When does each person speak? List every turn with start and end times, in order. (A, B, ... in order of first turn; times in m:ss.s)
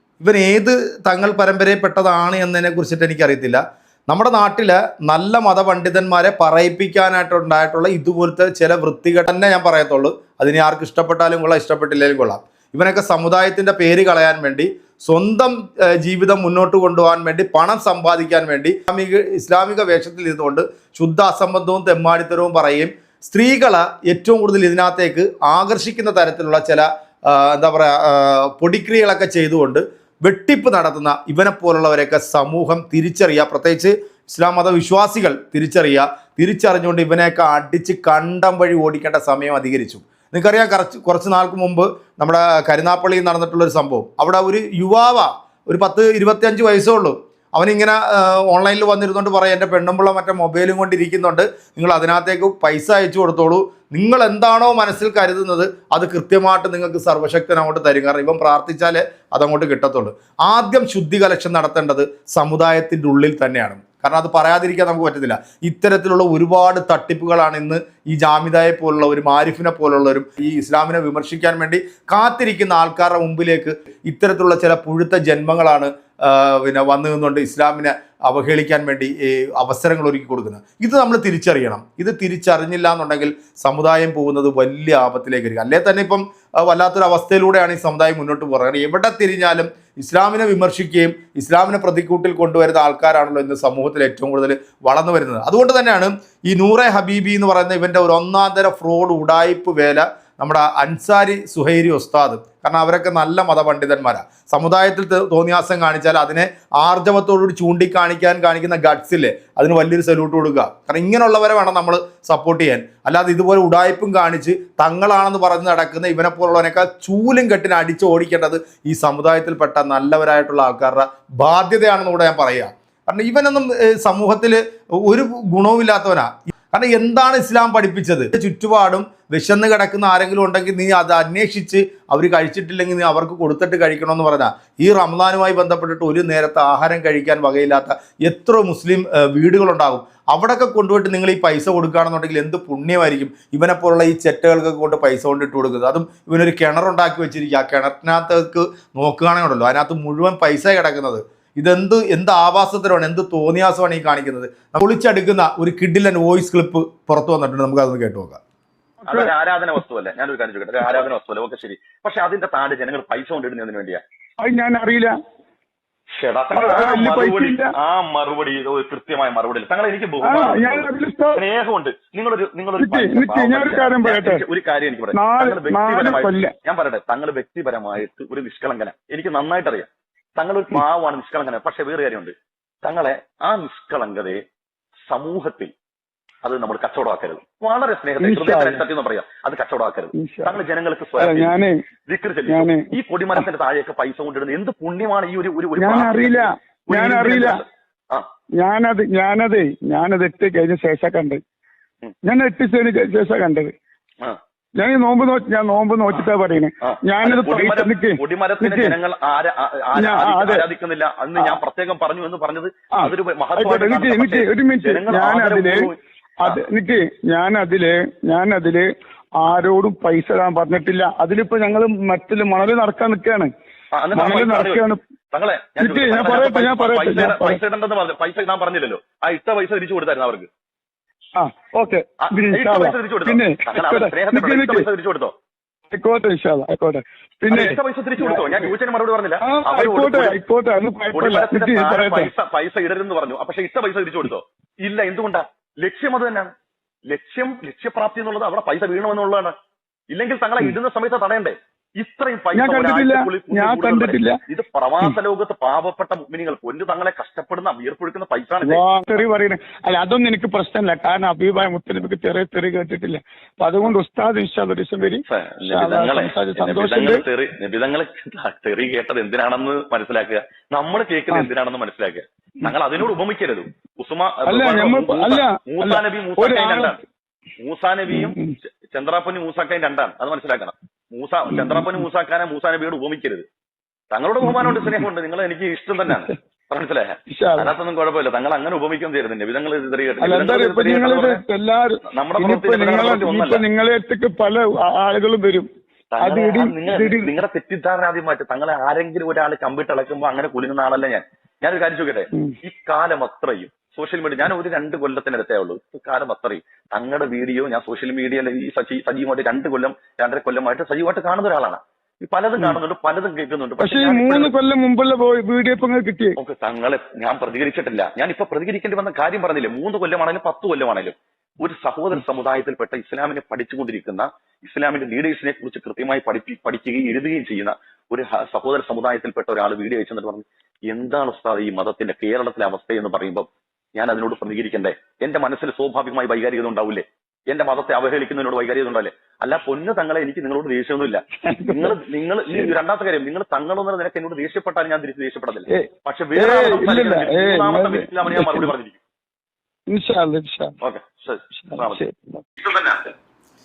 0:00.2-2:38.4 A
2:39.0-2:39.3 B
2:39.0-2:44.0 C
2:44.4-2:45.2 B
2:46.2-3:04.4 C
2:46.5-2:47.7 B
2:50.2-2:51.4 B
2:52.8-2:54.4 B
2:55.1-2:56.5 B
3:05.1-3:05.7 C
3:06.4-3:11.6 C
3:08.2-3:08.8 B
3:10.1-3:10.6 B
3:11.2-3:11.8 B
3:12.1-3:18.3 C
3:12.5-3:13.4 B
3:15.8-3:17.6 B
3:18.6-3:21.4 B
3:22.2-3:23.7 B
3:24.8-3:29.0 B
3:26.8-3:36.6 C
3:30.0-3:30.7 B
3:33.0-3:38.9 B
3:39.4-3:43.5 B
3:43.9-3:50.5 C
3:44.1-3:45.0 B
3:45.8-3:47.6 B
3:51.4-3:54.9 B
3:52.2-3:55.3 C
3:55.9-3:58.7 B
3:57.5-4:00.4 C
3:59.4-4:02.3 B
4:01.1-4:06.5 C
4:07.1-4:09.5 C
4:10.1-4:19.2 C
4:12.5-4:14.4 B
4:18.6-4:27.2 B
4:25.3-4:37.0 C
4:34.5-4:37.0 B
4:37.6-4:38.4 C
4:38.1-4:38.5 B
4:38.9-4:43.5 C
4:41.5-4:41.9 B
4:44.1-4:51.4 C
4:44.4-4:45.0 B
4:47.3-4:47.7 B
4:50.2-4:55.7 B
4:52.1-4:53.6 C
4:56.1-5:14.5 C
4:56.2-4:57.3 B
5:13.8-5:16.4 B
5:16.4-5:49.0 C
5:41.5-5:42.0 B
5:45.8-5:48.7 B
5:49.9-5:50.7 B
5:50.8-5:52.0 C
5:51.7-5:52.4 B
5:52.6-5:53.1 C